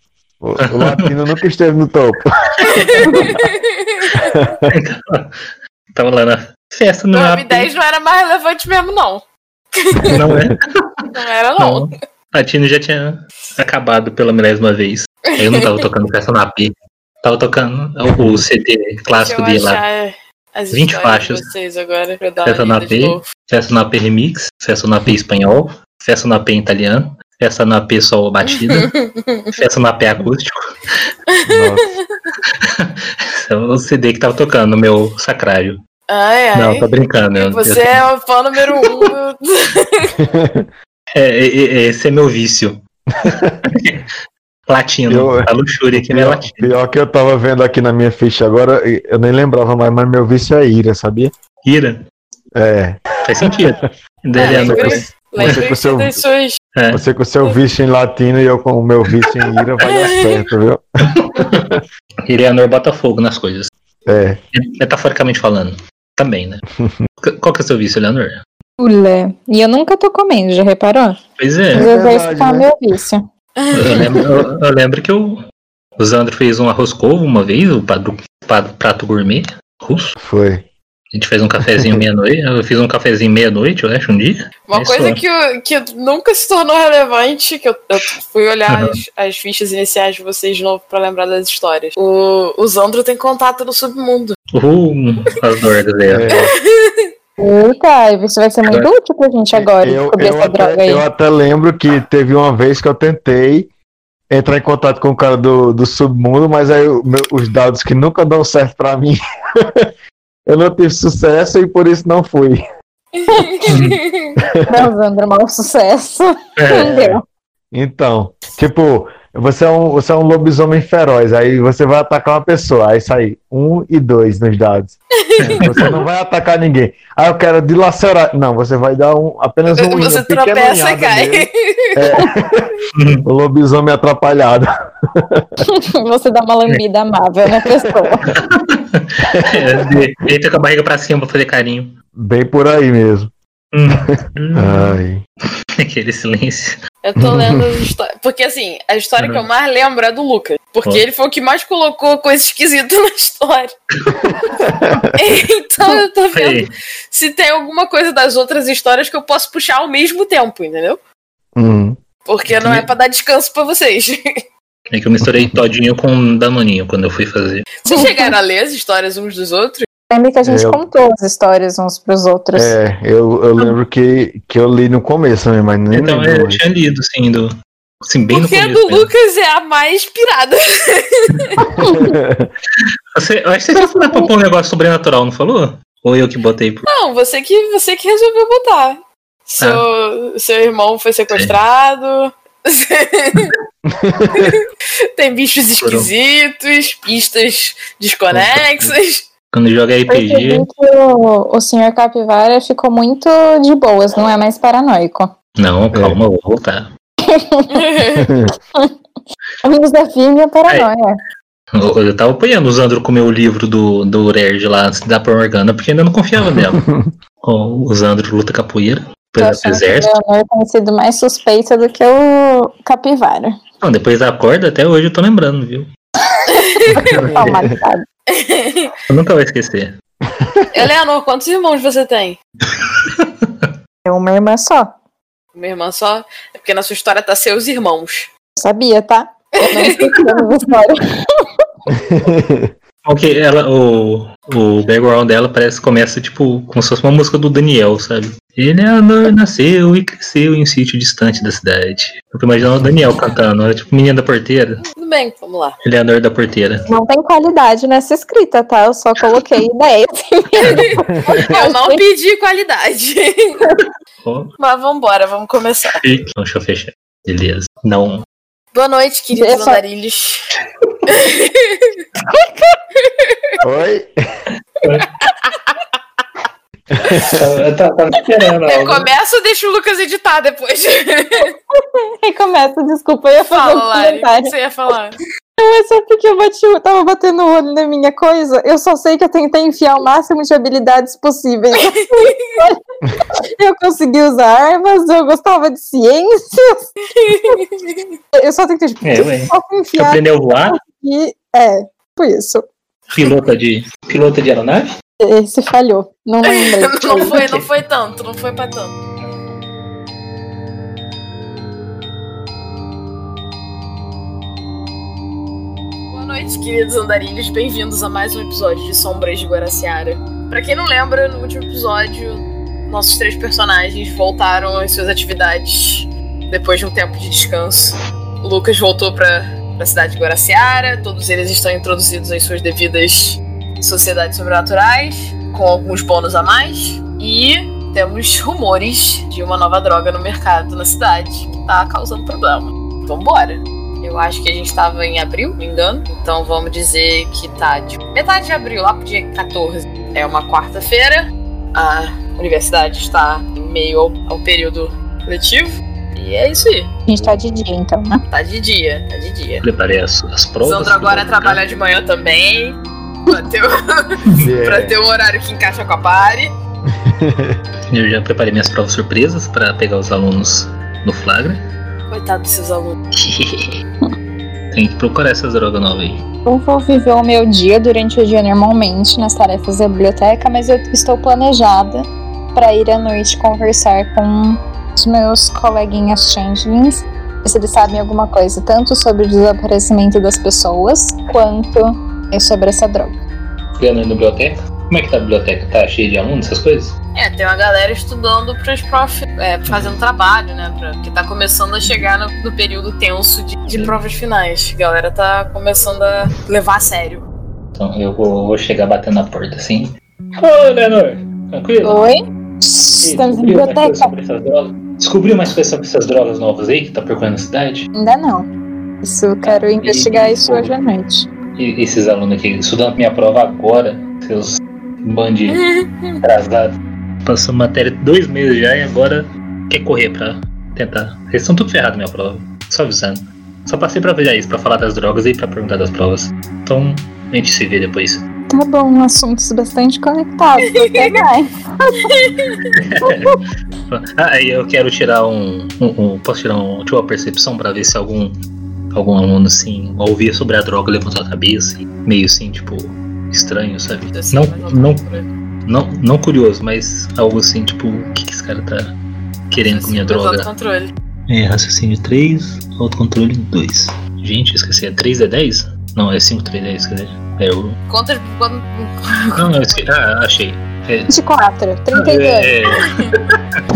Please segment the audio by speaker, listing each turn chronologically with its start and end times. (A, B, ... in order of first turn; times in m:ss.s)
0:00.4-0:03.3 A
0:00.6-0:01.1 B
0:02.6-0:04.4 C
0:04.1-0:04.7 A
0:04.7-0:05.4 B
0:05.9-0:07.7 B
0:07.1-0:10.2 C
0:10.1-0:10.7 B
0:10.1-0:10.5 A
0:11.1-0:11.9 C
0:11.6-0:19.8 B
0:19.1-0:23.2 C
0:20.7-0:21.4 B
0:22.4-0:28.9 B
0:28.5-0:29.6 C
0:29.5-0:30.7 B
0:31.3-0:32.0 C
0:31.5-0:31.9 A
0:32.6-0:35.8 B
0:36.1-0:40.1 C
0:36.5-0:38.0 B
0:40.2-0:40.7 A
0:41.1-0:44.1 B
0:43.1-0:43.6 A
0:44.7-0:46.7 B
0:45.1-0:51.3 A
0:51.6-0:52.0 B
0:52.5-0:53.7 A
0:53.2-0:55.6 B
0:54.4-0:56.2 A
0:54.4-0:56.6 C
0:56.7-0:57.0 B
0:56.9-1:01.8 A
0:59.8-1:00.4 C
1:01.2-1:03.7 B
1:04.1-1:04.4 A
1:04.5-1:06.6 B
1:07.2-1:08.4 B
1:08.8-1:11.2 D
1:11.4-1:11.9 B
1:11.7-1:12.7 A
1:11.7-1:13.3 D
1:13.6-1:14.2 C
1:13.7-1:15.4 B
1:16.0-1:20.2 B
1:20.2-1:20.7 A
1:21.1-1:25.2 B
1:21.8-1:22.0 A
1:24.7-1:34.4 C
1:28.7-1:29.0 B
1:34.5-1:36.3 B
1:36.0-1:36.5 A
1:36.3-1:37.1 C
1:37.4-1:41.0 D
1:38.7-1:38.9 B
1:39.5-1:43.7 A
1:44.3-1:49.9 A
1:50.5-1:52.6 A
1:53.1-1:54.4 C
1:53.7-1:54.0 B
1:54.4-1:54.9 A
1:54.7-1:57.2 D
1:56.6-1:57.0 B
1:56.7-1:57.2 A
1:57.7-2:04.9 A
2:05.2-2:05.7 C
2:05.4-2:06.0 B
2:05.6-2:12.7 A
2:09.7-2:12.2 C
2:12.9-2:13.2 B
2:13.2-2:15.5 A
2:15.6-2:18.3 D
2:17.8-2:18.3 A
2:18.3-2:21.9 B
2:19.3-2:20.0 A
2:22.1-2:23.3 A
2:23.7-2:25.0 B
2:24.1-2:25.2 A
2:25.8-2:26.8 B
2:27.0-2:33.7 C
2:27.2-2:27.9 A
2:29.2-2:29.4 B
2:34.2-2:35.2 A
2:35.2-2:41.0 C
2:36.3-2:36.7 B
2:41.6-2:42.0 A
2:42.2-2:44.2 C
2:42.5-2:42.9 B
2:44.9-2:47.7 B
2:45.2-2:45.6 A
2:47.8-2:49.9 C
2:47.9-2:48.3 D
2:50.1-2:52.8 D
2:50.4-2:50.8 A
2:52.5-2:56.6 A
2:55.9-2:57.5 B
2:58.0-2:59.1 B
2:58.3-3:01.5 C
3:01.7-3:02.5 A
3:01.8-3:02.2 D
3:03.1-3:06.9 B
3:03.7-3:04.3 D
3:06.9-3:13.5 C
3:13.8-3:14.6 A
3:14.3-3:14.6 C
3:15.2-3:19.3 C
3:15.8-3:16.1 B
3:18.3-3:18.9 B
3:19.5-3:20.7 B
3:20.1-3:25.3 D
3:25.6-3:26.9 B
3:27.2-3:27.9 D
3:27.7-3:28.3 C
3:28.1-3:28.5 A
3:29.6-3:31.2 D
3:31.7-3:36.8 B
3:36.5-3:37.1 A
3:37.4-3:40.2 B
3:39.4-3:43.6 D
3:43.8-3:45.9 B
3:46.4-3:47.1 C
3:46.9-3:47.6 B
3:47.0-3:47.8 A
3:47.4-3:48.0 D
3:48.3-3:48.9 C
3:49.1-3:49.9 B
3:50.2-3:50.7 A
3:50.7-3:52.4 C
3:52.8-3:53.7 B
3:54.0-3:54.9 D
3:55.5-3:58.3 C
3:58.6-4:01.5 D
3:59.6-4:00.1 C
4:01.9-4:02.7 A
4:03.0-4:14.8 B
4:15.0-4:15.8 C
4:15.8-4:16.8 B
4:16.9-4:22.0 D
4:20.6-4:23.6 C
4:21.0-4:21.6 A
4:24.2-4:24.5 B
4:24.6-4:26.0 C
4:26.0-4:28.2 B
4:28.7-4:30.4 C
4:29.4-4:29.8 D
4:31.1-4:32.0 C
4:33.0-4:33.4 C
4:33.6-4:34.1 A
4:34.8-4:35.1 B
4:35.0-4:35.8 C
4:36.9-4:37.6 A
4:37.2-4:39.1 B
4:38.7-4:41.5 C
4:42.2-4:44.5 D
4:43.5-4:45.2 C
4:45.6-4:52.8 D
4:51.8-4:52.6 C
4:53.4-4:56.8 D
4:57.2-4:58.1 C
4:58.4-5:02.6 D
4:59.0-5:00.8 B
5:03.1-5:04.9 B
5:05.2-5:07.4 D
5:06.4-5:08.9 C
5:07.2-5:07.6 B
5:16.1-5:56.9 C
5:57.1-5:58.2 D
5:58.3-5:59.6 C
5:59.6-6:01.6 B
6:00.6-6:06.5 C
6:04.4-6:05.0 A
6:06.9-6:07.6 A
6:07.9-6:11.6 B
6:12.1-6:13.0 C
6:13.1-6:13.8 B
6:14.7-6:16.2 B
6:16.5-6:33.2 D
6:33.8-6:36.9 B
6:37.2-6:47.2 C
6:39.7-6:39.9 B
6:43.7-6:44.0 B
6:47.8-6:52.0 B
6:51.8-6:54.1 D
6:53.0-6:57.9 B
6:57.9-6:58.5 D
6:59.0-7:01.3 D
6:59.4-7:00.8 B
7:01.6-7:05.6 B
7:05.5-7:06.2 C
7:06.2-7:18.2 B
7:18.5-7:22.2 D
7:20.8-7:21.2 C
7:22.1-7:22.6 C
7:22.8-7:28.3 B
7:23.1-7:23.4 D
7:28.9-7:39.0 B
7:34.1-7:35.3 C
7:39.5-7:40.5 B
7:39.6-7:40.9 C
7:41.3-7:47.8 B
7:47.9-7:50.4 C
7:49.4-7:51.1 B
7:51.1-7:52.6 D
7:51.9-7:53.4 B
7:52.7-7:53.2 C